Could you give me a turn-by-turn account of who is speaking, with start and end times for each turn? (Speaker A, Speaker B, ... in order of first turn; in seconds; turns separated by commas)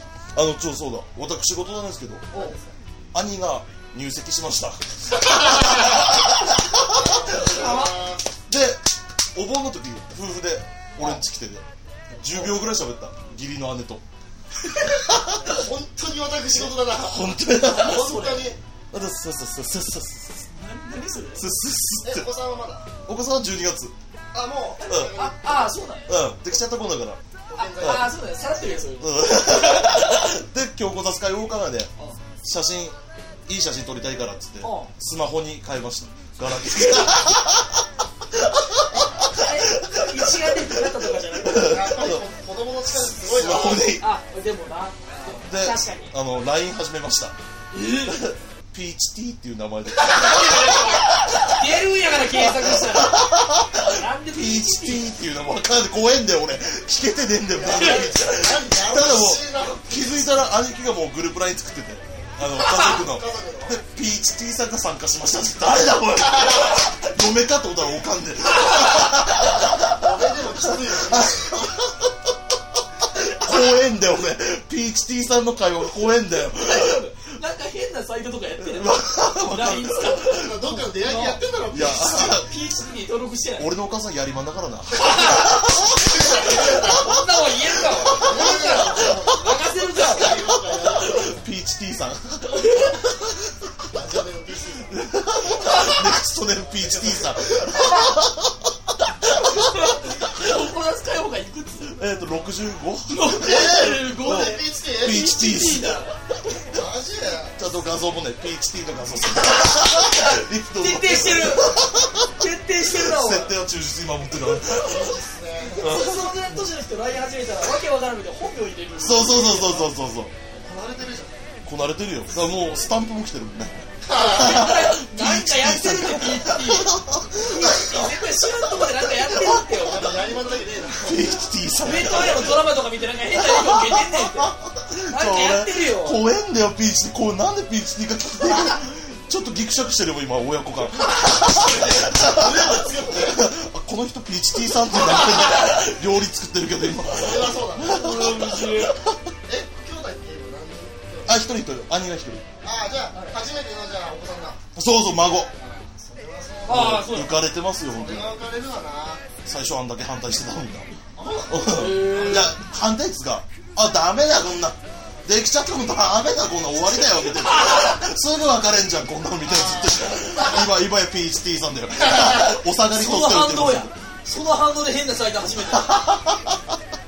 Speaker A: 0.3-2.3, Speaker B: 2.3-2.8, Speaker A: 3.1-7.7, Speaker B: 5.3-6.0, Speaker B: 6.9-8.2, Speaker C: 7.4-7.9, Speaker A: 8.5-8.8, Speaker A: 9.3-11.6, Speaker A: 12.2-14.0, Speaker A: 14.9-15.5, Speaker B: 15.2-18.6, Speaker A: 16.9-18.1, Speaker C: 17.6-18.5, Speaker A: 18.9-20.5, Speaker C: 20.5-21.5, Speaker A: 21.4-22.3, Speaker B: 22.0-22.9, Speaker A: 23.1-23.9, Speaker B: 24.3-25.8, Speaker C: 24.9-26.2, Speaker A: 26.1-27.2, Speaker B: 27.5-28.1, Speaker C: 27.6-30.2, Speaker A: 27.8-28.1, Speaker A: 29.0-31.9, Speaker A: 32.4-33.0, Speaker A: 33.5-37.8, Speaker C: 34.6-34.9, Speaker A: 38.3-42.2, Speaker C: 39.2-41.9, Speaker B: 41.5-43.9, Speaker A: 42.9-44.0, Speaker C: 44.0-46.1, Speaker A: 45.5-47.4, Speaker C: 47.7-48.2, Speaker A: 48.0-51.6, Speaker C: 50.0-53.2, Speaker A: 52.3-69.9, Speaker C: 53.9-55.1, Speaker B: 57.5-60.5, Speaker C: 57.8-58.1, Speaker B: 62.1-62.4, Speaker C: 62.5-63.0, Speaker B: 62.9-63.8, Speaker B: 69.9-71.8, Speaker A: 70.6-72.1, Speaker A: 73.1-77.0, Speaker C: 76.6-81.4, Speaker A: 78.6-80.3, Speaker B: 80.2-82.4, Speaker A: 81.7-82.5, Speaker C: 82.2-83.7, Speaker A: 83.6-86.0, Speaker C: 85.0-85.7, Speaker B: 85.9-87.1, Speaker C: 86.5-90.4, Speaker A: 87.9-89.2, Speaker B: 88.2-91.4, Speaker A: 91.1-93.0, Speaker C: 92.6-92.9, Speaker B: 93.8-95.0, Speaker A: 94.9-98.7, Speaker C: 95.6-96.0, Speaker B: 96.7-97.7, Speaker C: 97.8-98.1, Speaker A: 99.3-99.8, Speaker C: 99.4-102.0, Speaker A: 102.0-106.1, Speaker C: 103.1-106.2, Speaker B: 103.4-105.3, Speaker B: 106.7-107.6, Speaker A: 107.6-115.1, Speaker C: 109.7-111.8, Speaker C: 112.4-113.5, Speaker B: 114.7-115.9, Speaker C: 115.7-119.9, Speaker A: 115.8-116.2, Speaker A: 119.0-120.3, Speaker B: 120.5-121.5, Speaker A: 121.7-129.7, Speaker B: 124.0-124.8, Speaker C: 124.1-130.1, Speaker B: 129.7-131.4, Speaker A: 131.0-132.6, Speaker C: 131.8-134.5, Speaker A: 133.3-149.1, Speaker C: 135.1-136.2, Speaker C: 141.1-142.1, Speaker B: 142.0-143.4, Speaker B: 147.1-148.1, Speaker C: 147.9-149.0, Speaker B: 149.5-151.5, Speaker A: 151.3-152.4, Speaker B: 152.6-154.6, Speaker A: 154.8-155.5, Speaker B: 155.6-157.1, Speaker C: 156.7-157.3, Speaker A: 156.7-158.3, Speaker B: 157.9-159.3, Speaker A: 159.4-160.9, Speaker B: 161.2-162.6, Speaker A: 161.5-173.9, Speaker C: 161.6-162.5, Speaker C: 167.5-167.9, Speaker B: 169.4-170.7, Speaker C: 172.9-176.0, Speaker A: 175.7-176.6